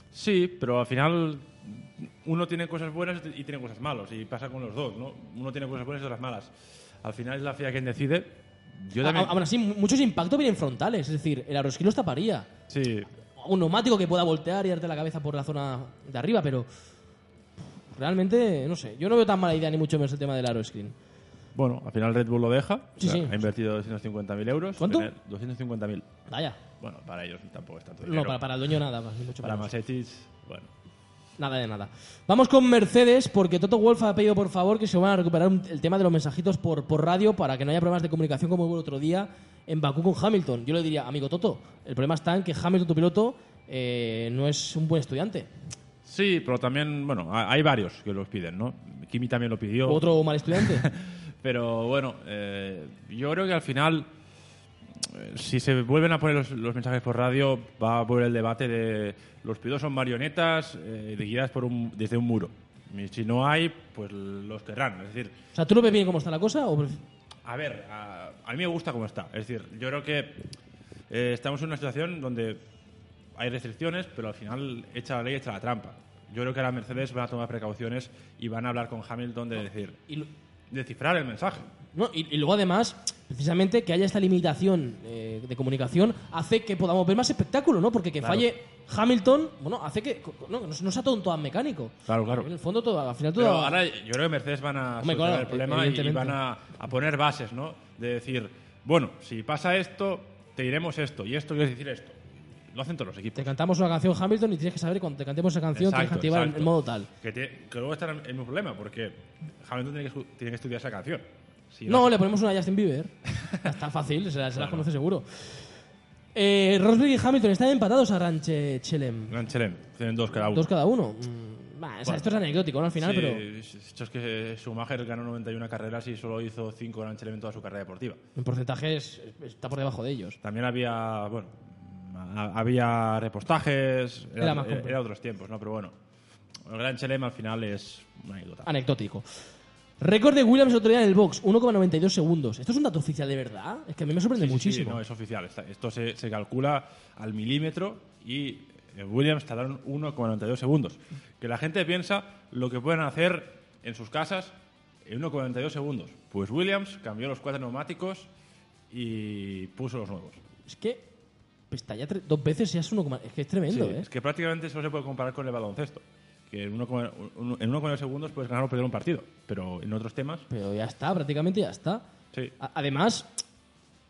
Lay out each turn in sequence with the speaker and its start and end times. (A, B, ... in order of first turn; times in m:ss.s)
0:00.1-0:09.4 A
0:09.0-0:12.5 B
0:12.7-0:13.1 A
0:13.4-0:16.7 B
0:17.9-0:20.9 B
0:21.5-0:26.1 A
0:23.0-0:23.4 B
0:24.8-0:25.1 B
0:26.3-0:26.6 B
0:26.8-0:28.4 A
0:28.0-0:29.7 B
0:29.4-0:30.7 A
0:31.4-0:45.5 B
0:46.0-0:54.1 A
0:49.8-0:50.9 B
0:54.9-1:05.4 A
1:05.5-1:07.0 B
1:07.4-1:10.5 A
1:11.1-1:12.6 A
1:13.4-1:20.0 A
1:20.7-1:21.7 A
1:21.9-1:33.8 B
1:28.2-1:28.5 A
1:32.1-1:32.5 A
1:33.3-1:43.5 A
1:35.0-1:36.4 B
1:43.4-1:47.1 B
1:45.7-1:52.2 A
1:51.9-1:55.6 B
1:54.5-1:54.9 A
1:56.3-1:59.4 B
1:59.3-2:00.7 A
2:00.5-2:03.4 B
2:02.0-2:02.4 A
2:03.0-2:08.2 A
2:08.4-2:10.4 B
2:10.4-2:16.0 A
2:14.4-2:15.0 B
2:16.6-2:18.7 A
2:18.6-2:19.2 B
2:20.0-2:25.0 B
2:24.4-2:38.3 A
2:38.9-2:40.4 A
2:40.6-2:41.1 B
2:41.7-2:44.1 B
2:43.7-2:50.5 A
2:50.5-2:52.0 B
2:52.6-2:53.3 B